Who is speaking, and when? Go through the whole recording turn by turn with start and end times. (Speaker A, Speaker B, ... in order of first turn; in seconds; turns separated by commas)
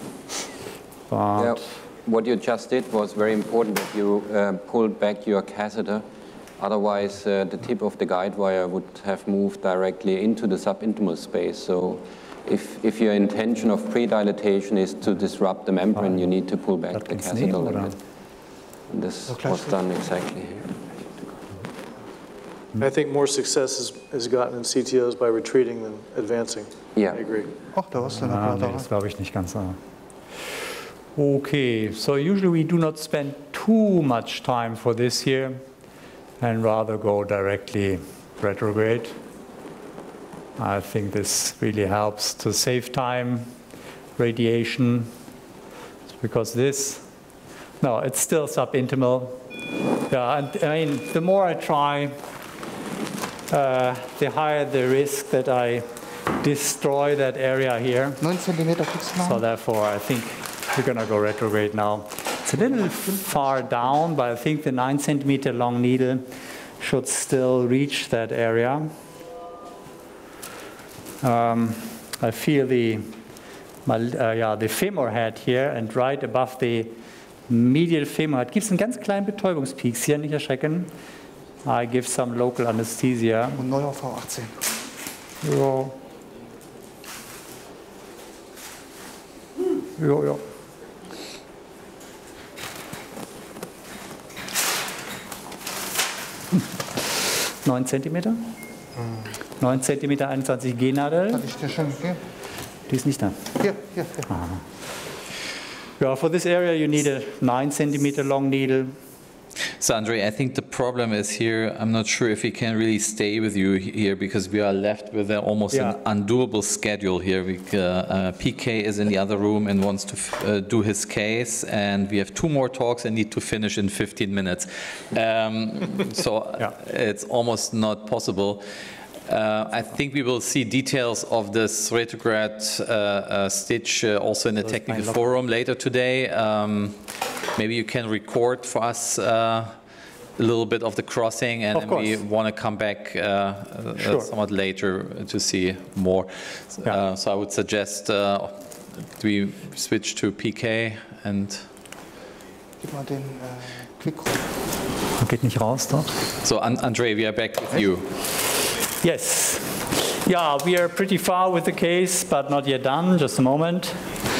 Speaker A: 1.1-1.6, Speaker B: 1.4-6.0, Speaker B: 6.6-18.0, Speaker A: 15.9-16.3, Speaker A: 16.9-17.9, Speaker B: 18.9-20.7, Speaker C: 19.3-19.8, Speaker D: 22.8-27.5, Speaker B: 27.0-27.3, Speaker C: 27.7-28.9, Speaker A: 28.1-29.8, Speaker A: 31.1-35.6, Speaker A: 36.4-39.2, Speaker A: 40.6-43.5, Speaker A: 44.2-45.1, Speaker A: 46.2-47.1, Speaker A: 47.8-49.4, Speaker A: 50.1-52.1, Speaker A: 53.5-58.2, Speaker C: 58.2-59.4, Speaker A: 59.2-66.3, Speaker C: 62.9-63.5, Speaker A: 66.8-68.9, Speaker A: 71.2-73.1, Speaker A: 73.8-76.9, Speaker A: 77.5-80.9, Speaker A: 81.6-83.7, Speaker C: 83.6-84.6, Speaker A: 85.4-86.0, Speaker A: 90.0-90.4, Speaker A: 97.6-98.4, Speaker C: 99.0-99.3, Speaker A: 99.6-101.5, Speaker C: 101.4-102.2, Speaker A: 102.9-103.5, Speaker C: 103.6-104.3, Speaker A: 104.3-104.6, Speaker A: 106.0-109.0, Speaker E: 109.8-128.6, Speaker A: 115.7-116.0, Speaker E: 129.2-139.8, Speaker A: 134.6-135.3, Speaker E: 140.4-151.7, Speaker A: 141.7-142.2, Speaker A: 144.0-144.3, Speaker C: 152.8-154.4, Speaker A: 155.2-156.1, Speaker E: 156.4-158.2, Speaker A: 159.0-164.1